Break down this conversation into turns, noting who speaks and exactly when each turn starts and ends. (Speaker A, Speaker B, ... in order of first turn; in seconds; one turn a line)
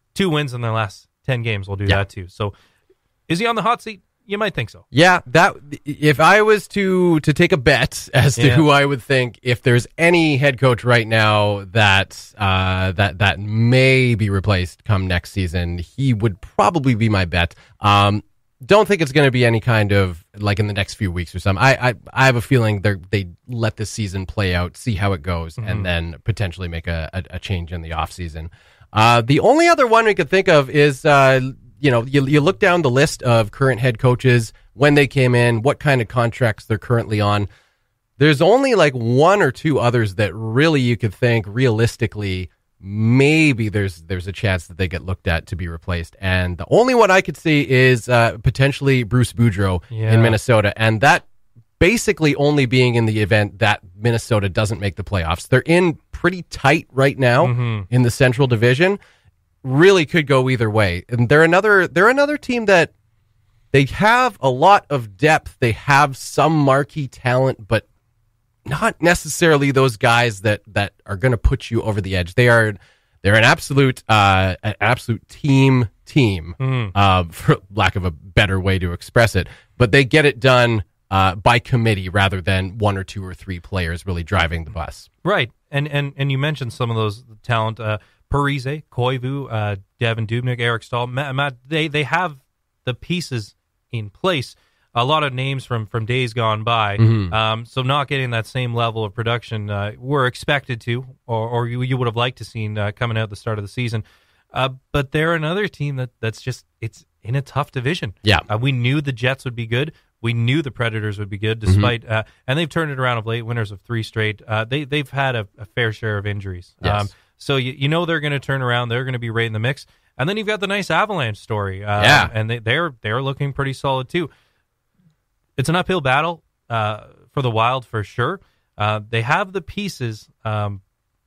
Speaker A: 0.1-2.5
Speaker A: 3.3-4.8
Speaker B: 4.9-37.5
Speaker A: 8.4-8.7
Speaker A: 25.6-25.9
Speaker B: 38.2-51.2
Speaker A: 49.9-50.4
Speaker B: 51.8-59.0
Speaker A: 57.4-57.9
Speaker B: 59.6-62.9
Speaker B: 63.7-67.8
Speaker B: 68.7-85.1
Speaker A: 76.6-76.9
Speaker A: 85.2-124.3
Speaker B: 97.0-97.3
Speaker B: 111.7-111.9
Speaker B: 116.8-117.1
Speaker B: 122.0-122.3
Speaker A: 125.6-130.8